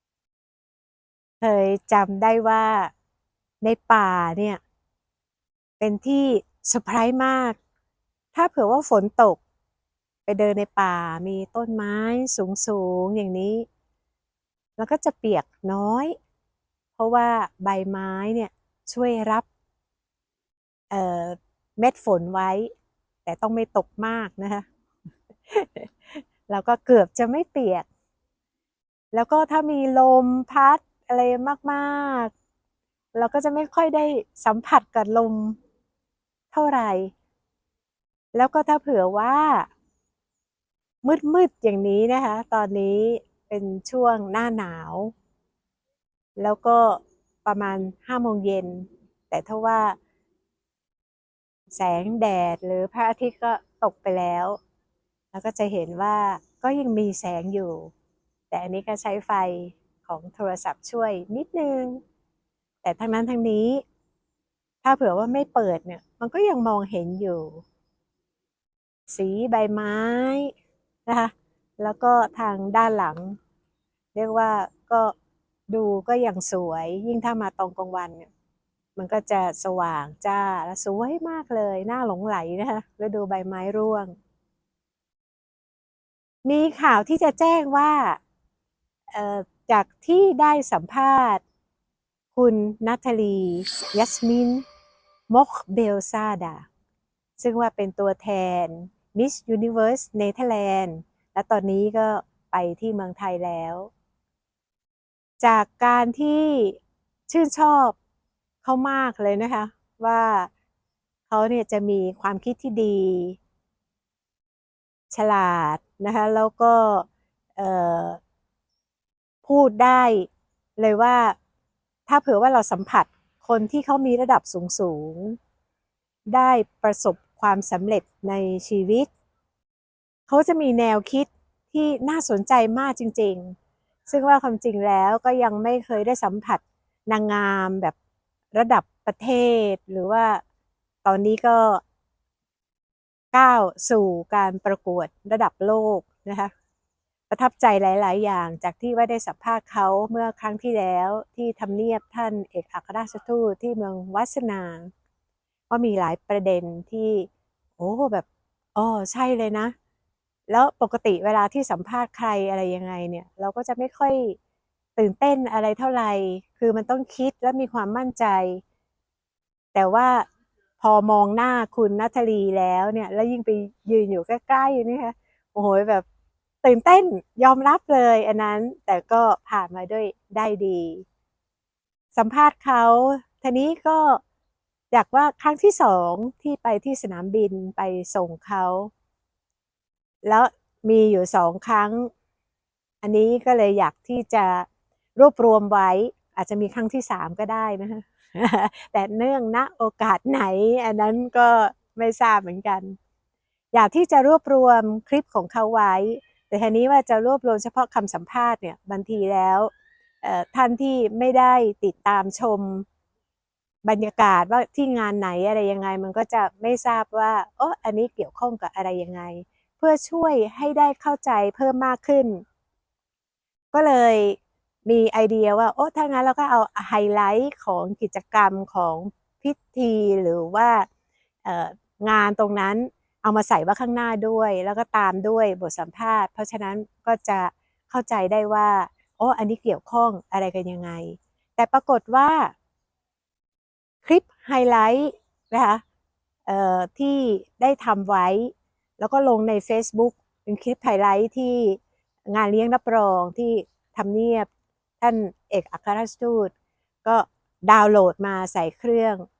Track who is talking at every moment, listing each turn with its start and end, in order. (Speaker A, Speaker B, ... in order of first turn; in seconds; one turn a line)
Speaker A: 1.4-2.9
Speaker A: 3.6-4.6
Speaker A: 5.8-7.6
Speaker A: 8.3-9.4
Speaker A: 10.3-13.7
Speaker A: 14.8-16.1
Speaker A: 17.0-19.5
Speaker A: 20.9-22.7
Speaker A: 23.2-24.7
Speaker A: 25.5-27.9
Speaker A: 29.1-32.3
Speaker A: 33.1-35.6
Speaker A: 36.5-37.1
Speaker A: 38.3-39.7
Speaker A: 41.0-45.1
Speaker A: 46.4-50.0
Speaker A: 51.7-54.6
Speaker A: 55.3-57.9
Speaker A: 58.5-62.0
Speaker A: 62.8-63.8
Speaker A: 64.8-67.6
Speaker A: 69.1-70.5
Speaker A: 71.1-73.4
Speaker A: 74.1-75.1
Speaker A: 75.7-78.3
Speaker A: 79.0-84.1
Speaker A: 86.5-88.2
Speaker A: 89.1-91.4
Speaker A: 92.3-94.7
Speaker A: 95.3-96.7
Speaker A: 97.4-103.9
Speaker A: 105.4-108.0
Speaker A: 108.6-110.5
Speaker A: 111.3-113.4
Speaker A: 115.1-118.2
Speaker A: 119.4-121.4
Speaker A: 122.1-125.4
Speaker A: 126.3-129.1
Speaker A: 130.3-133.6
Speaker A: 134.1-137.9
Speaker A: 138.5-140.4
Speaker A: 141.0-141.8
Speaker A: 143.3-146.5
Speaker A: 147.3-154.9
Speaker A: 155.7-159.7
Speaker A: 160.5-164.4
Speaker A: 165.0-168.6
Speaker A: 169.7-170.3
Speaker A: 170.8-176.1
Speaker A: 176.6-181.1
Speaker A: 182.2-184.2
Speaker A: 184.9-188.9
Speaker A: 190.2-192.1
Speaker A: 193.0-203.0
Speaker A: 203.7-209.7
Speaker A: 210.2-212.9
Speaker A: 213.8-222.4
Speaker A: 223.7-230.9
Speaker A: 231.4-242.5
Speaker A: 244.0-245.8
Speaker A: 246.5-254.5
Speaker A: 255.0-256.5
Speaker A: 257.0-259.2